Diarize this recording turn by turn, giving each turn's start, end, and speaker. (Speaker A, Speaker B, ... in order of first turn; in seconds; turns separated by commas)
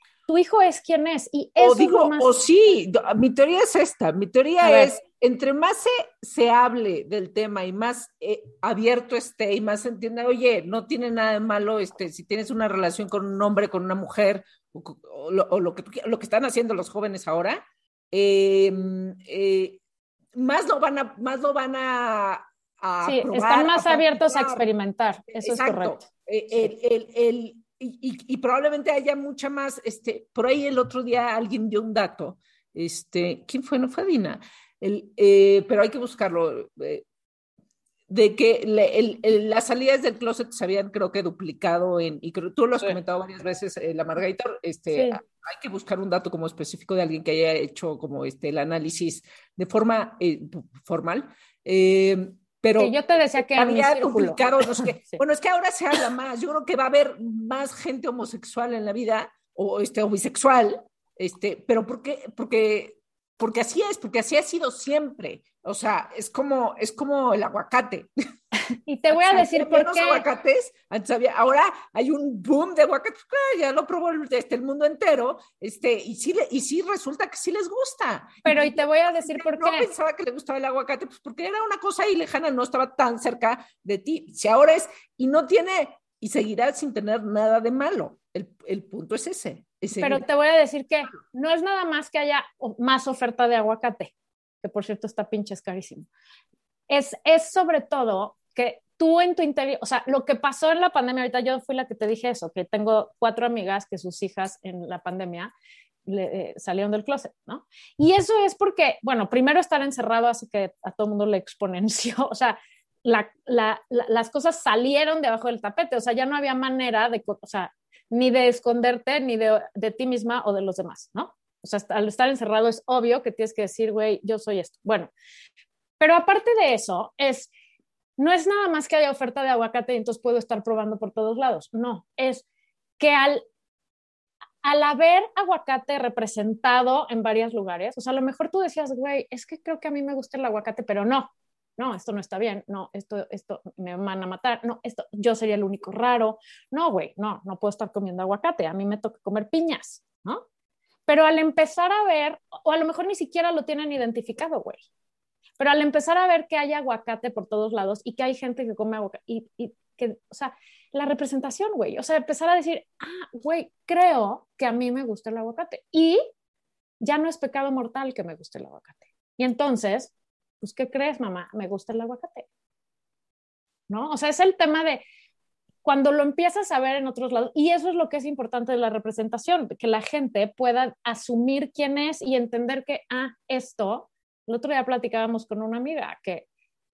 Speaker A: 0.3-2.3, Speaker B: 1.6-19.8, Speaker A: 4.6-4.9, Speaker B: 20.3-24.7, Speaker A: 23.0-26.0, Speaker B: 25.3-37.0, Speaker B: 38.1-53.0, Speaker A: 44.9-45.2, Speaker A: 52.8-55.2, Speaker B: 53.5-68.1, Speaker A: 68.8-70.2, Speaker B: 69.1-90.2, Speaker A: 78.4-79.9, Speaker A: 90.0-96.1, Speaker A: 96.9-105.5, Speaker A: 106.0-125.1, Speaker A: 126.0-127.5, Speaker A: 128.2-132.4, Speaker A: 133.0-133.4, Speaker A: 134.6-150.4, Speaker A: 151.1-154.8, Speaker A: 155.6-166.2, Speaker A: 167.0-172.5, Speaker A: 173.9-175.0, Speaker A: 175.8-186.4